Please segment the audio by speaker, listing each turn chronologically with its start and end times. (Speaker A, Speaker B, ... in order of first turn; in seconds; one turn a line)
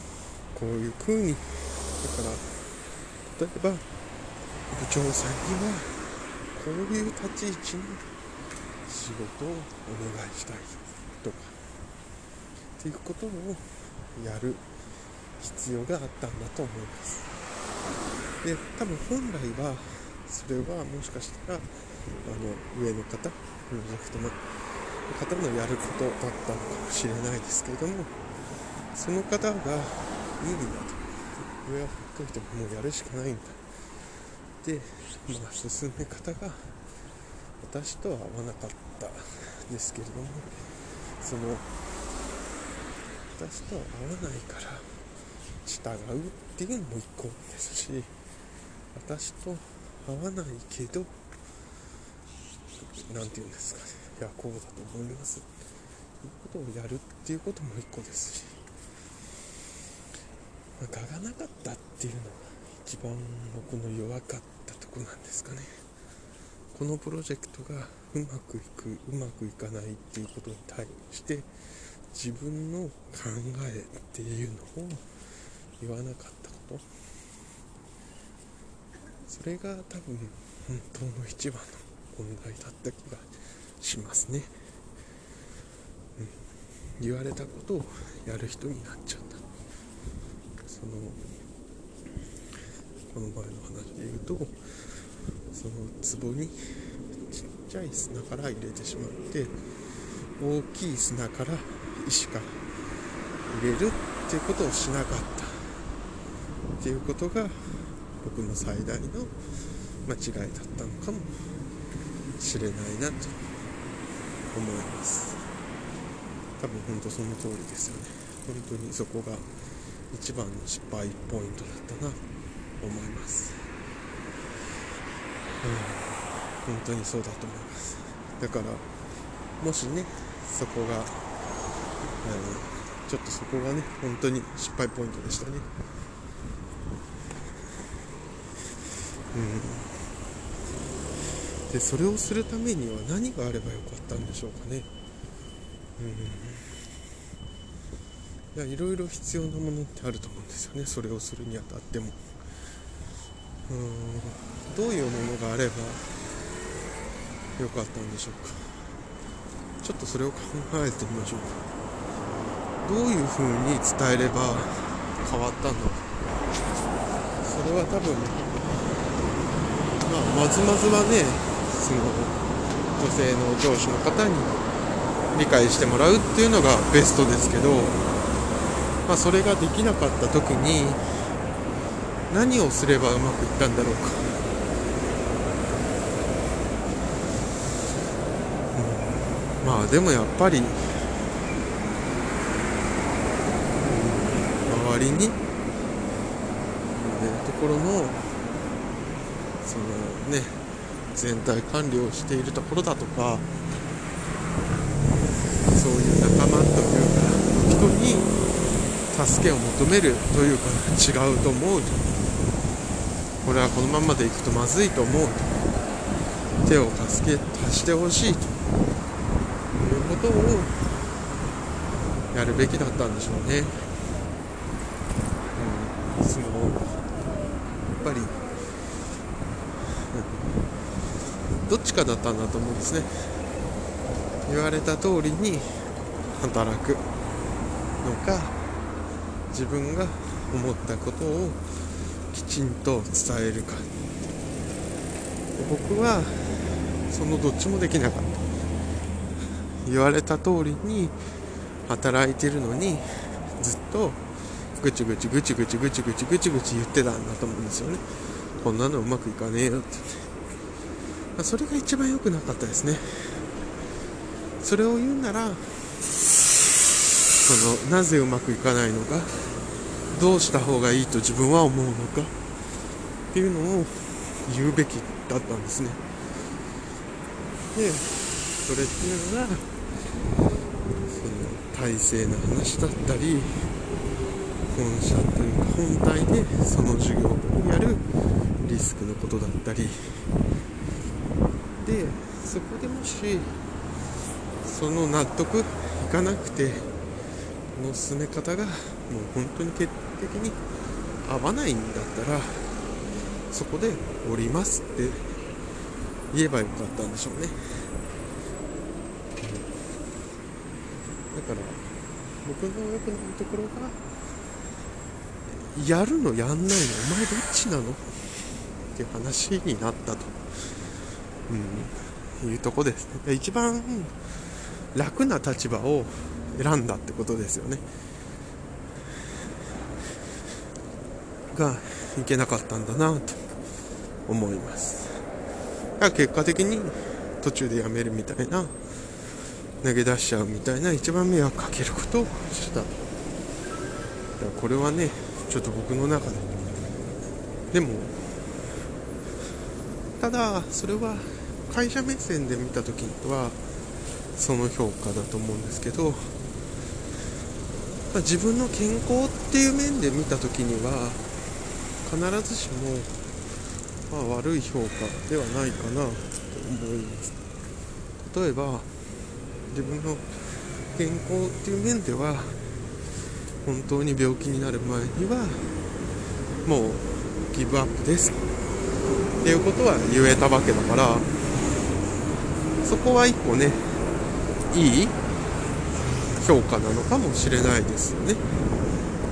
Speaker A: 0.5-1.4
Speaker A: 2.0-2.5
Speaker A: 3.2-3.8
Speaker A: 4.7-5.9
Speaker A: 6.5-8.0
Speaker A: 8.9-11.6
Speaker A: 12.8-13.6
Speaker A: 14.2-14.6
Speaker A: 15.4-17.3
Speaker A: 18.4-21.7
Speaker A: 22.2-24.4
Speaker A: 25.1-28.1
Speaker A: 28.9-33.6
Speaker A: 34.6-36.7
Speaker A: 37.6-40.5
Speaker A: 41.2-41.7
Speaker A: 43.4-44.9
Speaker A: 45.6-48.1
Speaker A: 48.9-51.1
Speaker A: 53.1-55.5
Speaker A: 56.2-58.6
Speaker A: 60.8-65.7
Speaker A: 66.7-71.5
Speaker A: 72.1-75.0
Speaker A: 75.8-76.9
Speaker A: 79.3-83.3
Speaker A: 83.8-84.5
Speaker A: 87.0-89.4
Speaker A: 90.7-91.2
Speaker A: 93.1-94.6
Speaker A: 95.5-96.6
Speaker A: 97.3-99.5
Speaker A: 100.4-102.6
Speaker A: 103.5-105.7
Speaker A: 106.8-107.5
Speaker A: 108.2-109.3
Speaker A: 110.1-111.3
Speaker A: 112.4-113.4
Speaker A: 114.5-115.4
Speaker A: 116.6-119.5
Speaker A: 120.1-122.2
Speaker A: 122.8-123.6
Speaker A: 125.6-128.8
Speaker A: 129.6-131.2
Speaker A: 132.2-135.7
Speaker A: 139.3-139.9
Speaker A: 141.7-144.9
Speaker A: 146.0-146.8
Speaker A: 148.5-152.2
Speaker A: 153.7-156.0
Speaker A: 157.6-158.7
Speaker A: 159.8-161.6
Speaker A: 162.8-166.1
Speaker A: 167.4-168.4
Speaker A: 170.0-172.4
Speaker A: 172.9-174.6
Speaker A: 175.3-178.0
Speaker A: 179.1-181.0
Speaker A: 182.3-184.4
Speaker A: 188.7-190.9
Speaker A: 193.8-195.4
Speaker A: 196.9-198.2
Speaker A: 199.6-200.6
Speaker A: 201.1-203.5
Speaker A: 205.7-208.3
Speaker A: 209.1-212.0
Speaker A: 213.4-215.6
Speaker A: 216.6-218.5
Speaker A: 219.8-220.8
Speaker A: 222.3-223.8
Speaker A: 225.6-226.8
Speaker A: 228.0-228.4
Speaker A: 230.0-230.4
Speaker A: 231.7-233.4
Speaker A: 234.5-237.1
Speaker A: 238.0-238.6
Speaker A: 239.5-241.6
Speaker A: 242.3-243.9
Speaker A: 245.6-248.4
Speaker A: 249.8-251.2
Speaker A: 251.9-253.1
Speaker A: 253.6-254.2
Speaker A: 254.8-258.0
Speaker A: 258.6-260.3
Speaker A: 261.4-263.4
Speaker A: 264.6-265.7
Speaker A: 267.4-269.5
Speaker A: 270.1-272.4
Speaker A: 273.3-276.0
Speaker A: 277.7-279.7
Speaker A: 281.1-283.6
Speaker A: 284.7-288.1
Speaker A: 288.6-290.2
Speaker A: 291.8-293.6
Speaker A: 294.6-296.9
Speaker A: 297.8-300.6
Speaker A: 301.2-302.7
Speaker A: 303.5-305.4
Speaker A: 306.3-307.9
Speaker A: 309.4-309.7
Speaker A: 311.3-311.9
Speaker A: 312.4-314.0
Speaker A: 315.5-318.4
Speaker A: 318.9-320.4
Speaker A: 321.5-324.1
Speaker A: 324.9-327.9
Speaker A: 331.5-333.4
Speaker A: 334.3-335.2
Speaker A: 336.0-338.8
Speaker A: 339.8-343.0
Speaker A: 344.4-346.6
Speaker A: 347.7-348.2
Speaker A: 350.2-353.6
Speaker A: 354.4-356.4
Speaker A: 358.1-361.2
Speaker A: 362.0-363.1
Speaker A: 364.1-367.3
Speaker A: 368.2-368.9
Speaker A: 369.7-372.6
Speaker A: 373.6-375.8
Speaker A: 376.6-378.5
Speaker A: 379.4-381.3
Speaker A: 382.8-384.0
Speaker A: 384.7-385.2
Speaker A: 386.4-388.5